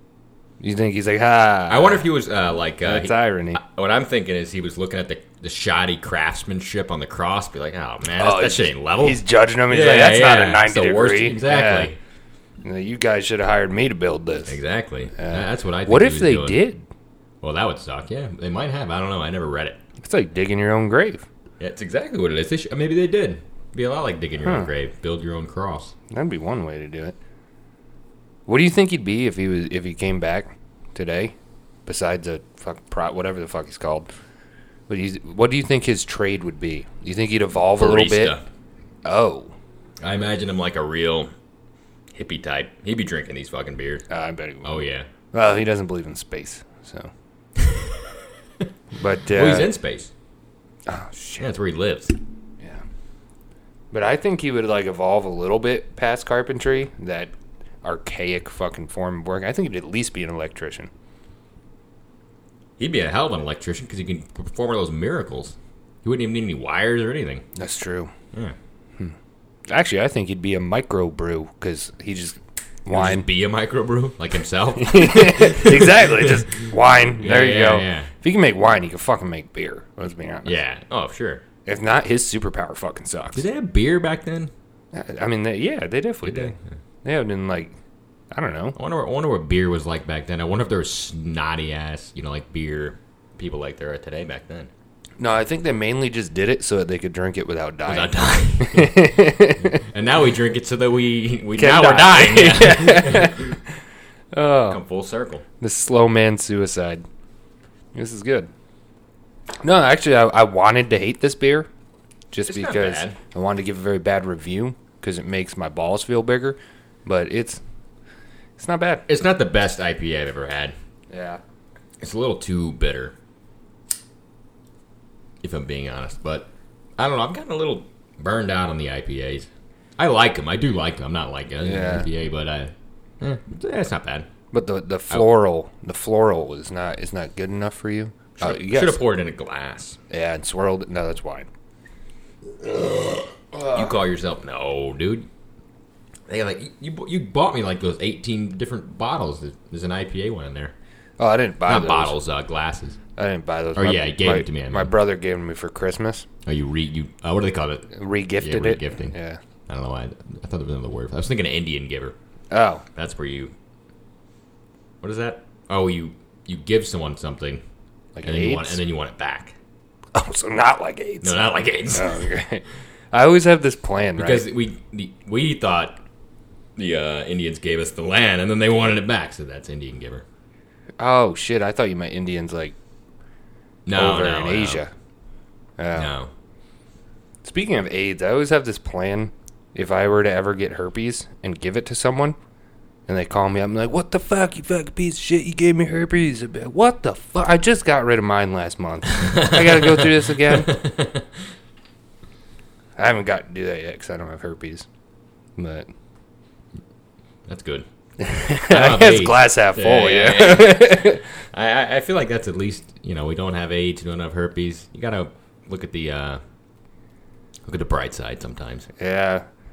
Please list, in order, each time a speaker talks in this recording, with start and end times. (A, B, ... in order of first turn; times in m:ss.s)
0:00.6-0:02.1 A
0:01.7-0:12.0 B
0:02.8-0:03.6 A
0:08.1-0:11.9 A
0:12.6-0:14.6 A
0:14.5-0:16.6 B
0:15.2-0:16.9 A
0:17.4-0:19.8 B
0:20.0-0:21.3 A
0:21.6-0:25.9 B
0:24.4-0:24.7 A
0:26.1-0:27.2 A
0:28.5-0:31.4 A
0:31.9-0:34.1 A
0:34.9-0:38.4 A
0:37.8-0:38.5 B
0:39.0-0:39.6 A
0:40.0-0:41.3 B
0:42.2-0:44.0 B
0:44.1-0:44.8 A
0:44.6-0:45.1 B
0:45.3-0:47.1 A
0:47.6-0:48.7 B
0:48.9-0:49.7 A
0:49.3-0:50.1 B
0:50.9-0:51.5 A
0:51.4-0:52.2 B
0:52.6-0:52.8 A
0:53.9-1:00.9 A
1:02.8-1:07.5 B
1:07.6-1:08.1 A
1:09.7-1:13.3 A
1:12.9-1:18.1 B
1:14.8-1:20.6 A
1:20.4-1:21.4 B
1:21.7-1:23.5 A
1:23.4-1:24.5 B
1:24.9-1:27.8 A
1:26.2-1:26.7 B
1:28.3-1:28.8 A
1:28.8-1:34.7 B
1:35.2-1:39.8 A
1:37.9-1:43.6 B
1:41.6-1:43.8 A
1:44.3-1:44.8 A
1:44.7-1:45.4 B
1:45.6-1:47.0 A
1:47.9-1:48.5 A
1:49.6-1:51.7 A
1:52.3-1:57.6 A
1:52.5-1:53.2 B
1:58.6-1:59.1 A
1:59.1-2:00.8 B
2:01.1-2:01.4 A
2:02.0-2:03.2 B
2:05.4-2:14.3 B
2:11.6-2:12.1 A
2:14.5-2:19.0 A
2:18.4-2:20.0 B
2:20.1-2:21.5 A
2:22.6-2:24.0 A
2:23.7-2:25.3 B
2:26.3-2:30.7 B
2:31.2-2:32.2 A
2:31.7-2:33.0 B
2:33.2-2:36.3 A
2:33.8-2:34.9 B
2:36.4-2:39.2 B
2:37.9-2:39.4 A
2:39.7-2:42.2 B
2:42.5-2:42.8 A
2:43.0-2:43.5 B
2:45.0-2:47.6 B
2:48.2-2:48.8 A
2:48.2-2:49.6 B
2:50.1-2:54.5 A
2:51.2-2:52.3 B
2:54.2-2:56.0 B
2:56.8-3:00.3 B
3:01.0-3:02.8 A
3:03.9-3:04.8 B
3:03.9-3:04.9 A
3:05.8-3:06.1 A
3:05.9-3:06.3 B
3:07.4-3:12.4 A
3:13.1-3:20.7 A
3:19.1-3:21.3 B
3:23.0-3:24.9 A
3:25.6-3:25.9 A
3:27.5-3:27.9 B
3:28.2-3:31.2 A
3:28.6-3:36.4 B
3:37.7-3:38.9 B
3:39.0-3:39.5 A